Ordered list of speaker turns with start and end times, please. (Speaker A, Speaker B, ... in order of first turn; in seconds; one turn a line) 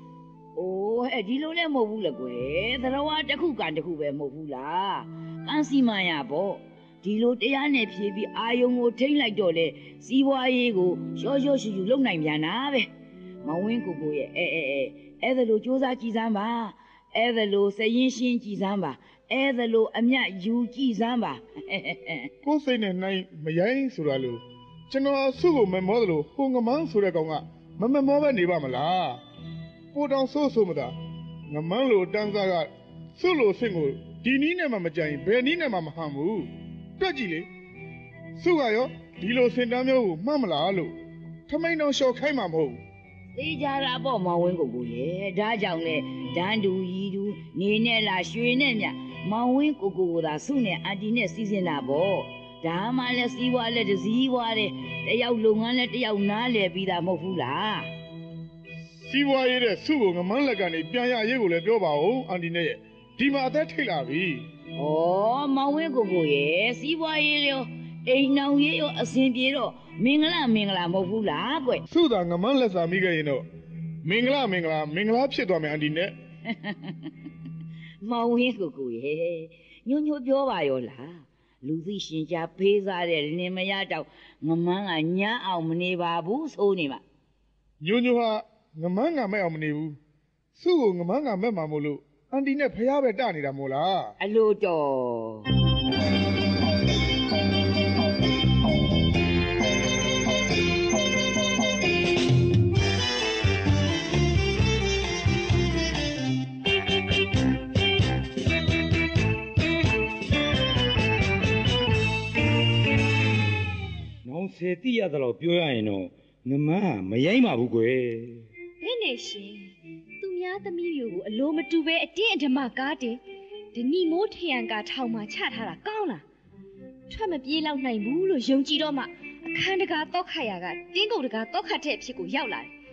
Speaker A: 0.6-12.9
Speaker A: 13.4-22.3
Speaker B: 22.4-29.2
Speaker B: 29.9-30.9
Speaker B: 31.5-37.5
Speaker B: 38.4-40.9
Speaker B: 41.5-42.8
Speaker A: 43.3-57.9
Speaker B: 59.0-64.5
Speaker A: 64.8-71.8
Speaker B: 71.9-73.4
Speaker B: 74.0-76.1
Speaker A: 76.5-77.1
Speaker A: 78.0-87.0
Speaker B: 87.8-90.0
Speaker B: 90.6-94.1
Speaker A: 94.2-95.4
Speaker C: 114.2-118.5
Speaker D: 118.8-123.2
Speaker D: 123.7-126.2
Speaker D: 127.1-132.7